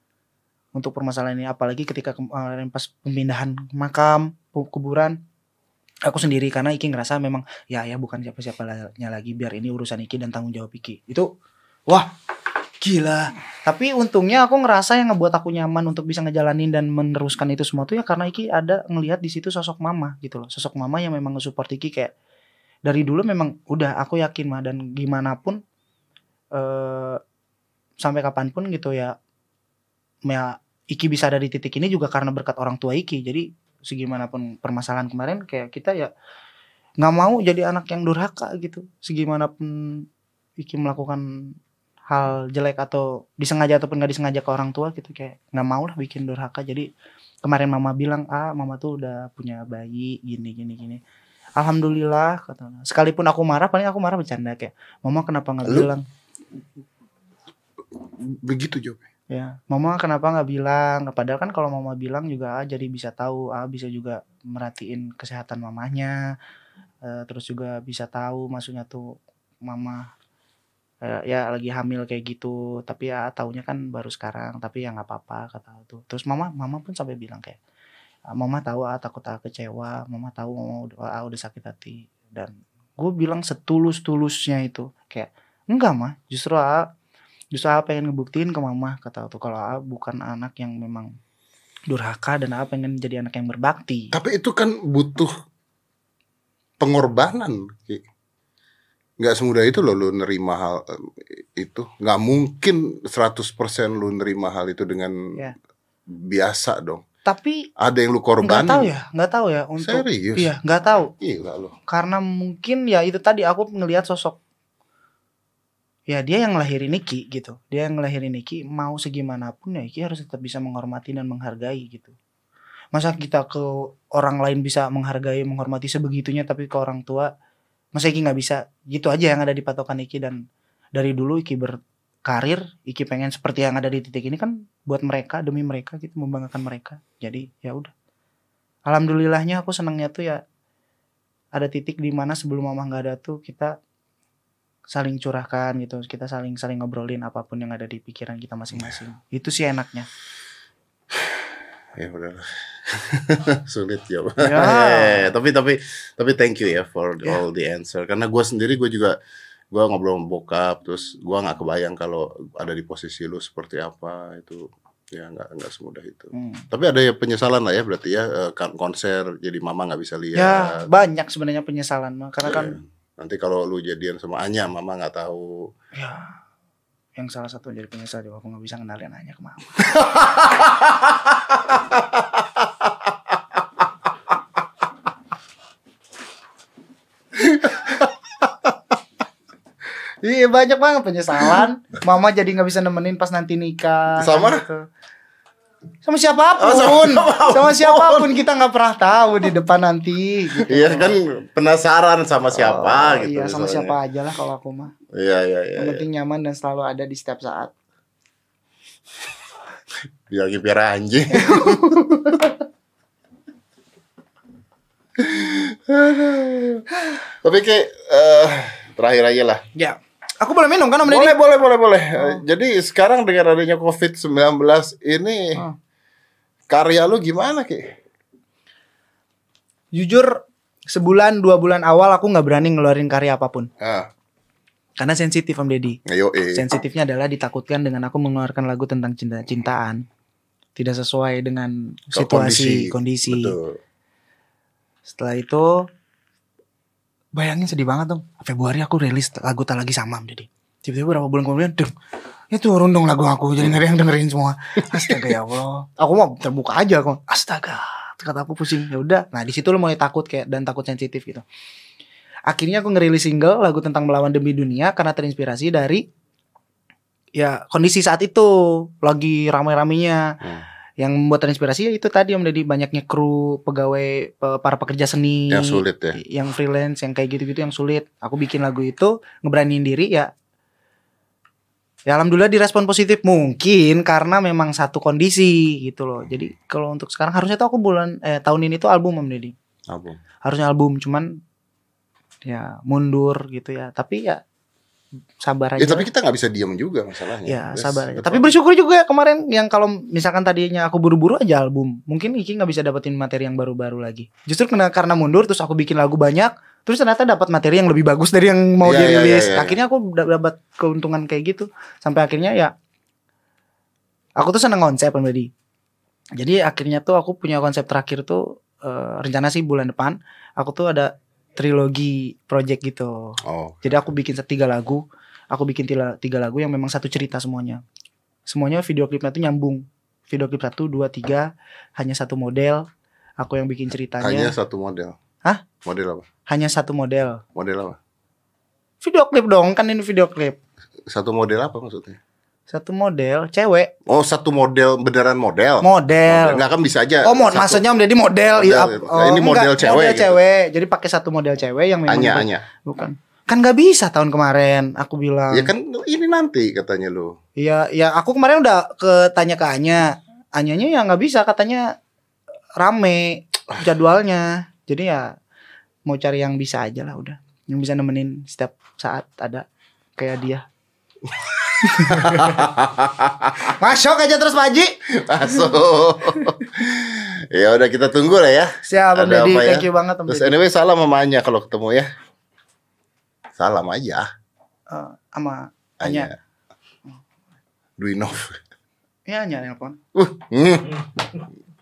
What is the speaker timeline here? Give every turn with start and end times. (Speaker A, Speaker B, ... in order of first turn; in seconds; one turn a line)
Speaker A: 0.8-5.2
Speaker A: 6.1-11.3
Speaker A: 12.8-22.1
Speaker A: 22.9-25.6
Speaker A: 26.6-27.2
Speaker A: 28.0-29.1
Speaker A: 30.2-36.1
Speaker A: 37.0-40.0
Speaker A: 40.6-41.2
Speaker A: 42.1-46.9
Speaker A: 47.4-51.0
Speaker A: 51.6-56.0
Speaker B: 55.6-55.9
Speaker B: 57.9-59.0
Speaker A: 59.3-66.3
Speaker A: 67.0-69.1
Speaker A: 69.7-70.1
Speaker A: 71.0-77.6
Speaker A: 78.3-86.9
Speaker A: 87.5-91.1
Speaker A: 91.9-94.1
Speaker B: 94.1-95.3
Speaker B: 96.8-98.0
Speaker B: 99.2-105.4
Speaker B: 106.1-107.0
Speaker A: 107.3-107.7
Speaker B: 107.8-108.9
Speaker A: 108.4-111.1
Speaker B: 109.8-110.5
Speaker B: 111.2-111.8
Speaker A: 111.9-114.4
Speaker A: 116.1-122.2
Speaker A: 122.9-127.3
Speaker A: 128.0-130.4
Speaker A: 130.9-137.9
Speaker A: 138.9-140.4
Speaker A: 141.6-143.8
Speaker A: 144.9-150.1
Speaker B: 151.1-159.2
Speaker A: 154.4-155.3
Speaker B: 159.7-170.9
Speaker A: 166.3-166.7
Speaker A: 170.3-172.8
Speaker B: 172.5-175.7
Speaker A: 175.9-176.4
Speaker A: 177.2-179.9
Speaker B: 179.8-183.1
Speaker B: 187.3-188.7
Speaker A: 190.2-194.9
Speaker B: 194.2-194.7
Speaker A: 196.0-201.2
Speaker B: 196.6-198.4
Speaker B: 200.6-203.9
Speaker A: 202.6-204.9
Speaker B: 205.1-206.0
Speaker A: 205.8-207.7
Speaker B: 210.3-212.5
Speaker A: 211.3-212.4
Speaker B: 215.2-219.6
Speaker A: 219.8-221.4
Speaker B: 221.0-225.7
Speaker B: 226.7-227.9
Speaker A: 229.9-233.7
Speaker B: 233.8-234.1
Speaker A: 235.0-236.0
Speaker B: 236.1-236.7
Speaker A: 236.5-240.0
Speaker A: 240.8-243.6
Speaker B: 242.1-243.8
Speaker A: 245.1-245.9
Speaker A: 247.4-251.9
Speaker A: 252.5-261.4
Speaker A: 262.5-266.0
Speaker A: 267.4-270.4
Speaker A: 271.0-280.3
Speaker B: 275.5-276.2
Speaker A: 282.1-289.6
Speaker B: 289.9-290.2
Speaker A: 290.4-291.3
Speaker A: 292.5-294.4
Speaker A: 295.4-296.1
Speaker B: 295.8-298.6
Speaker A: 297.4-312.7
Speaker B: 308.8-309.8
Speaker A: 314.4-315.5
Speaker A: 316.4-327.8
Speaker B: 323.4-323.9
Speaker A: 328.5-332.9
Speaker A: 333.4-334.5
Speaker B: 334.2-335.2
Speaker B: 335.8-336.3
Speaker A: 336.5-337.4
Speaker B: 337.6-338.0
Speaker A: 339.0-340.6
Speaker B: 341.1-342.2
Speaker A: 342.7-343.9
Speaker B: 344.1-347.8
Speaker A: 345.8-346.6
Speaker A: 347.2-355.7
Speaker B: 348.6-350.4
Speaker B: 352.1-352.6
Speaker B: 355.5-357.4
Speaker A: 357.6-361.9
Speaker A: 362.8-365.4
Speaker A: 366.1-369.7
Speaker A: 370.2-370.6
Speaker B: 371.4-373.8
Speaker A: 371.8-372.6
Speaker A: 373.7-375.0
Speaker B: 375.1-382.1
Speaker A: 378.8-380.6
Speaker B: 383.6-384.3
Speaker A: 384.9-386.3
Speaker B: 386.0-386.4
Speaker B: 388.0-388.6
Speaker A: 389.3-390.0
Speaker B: 390.1-391.4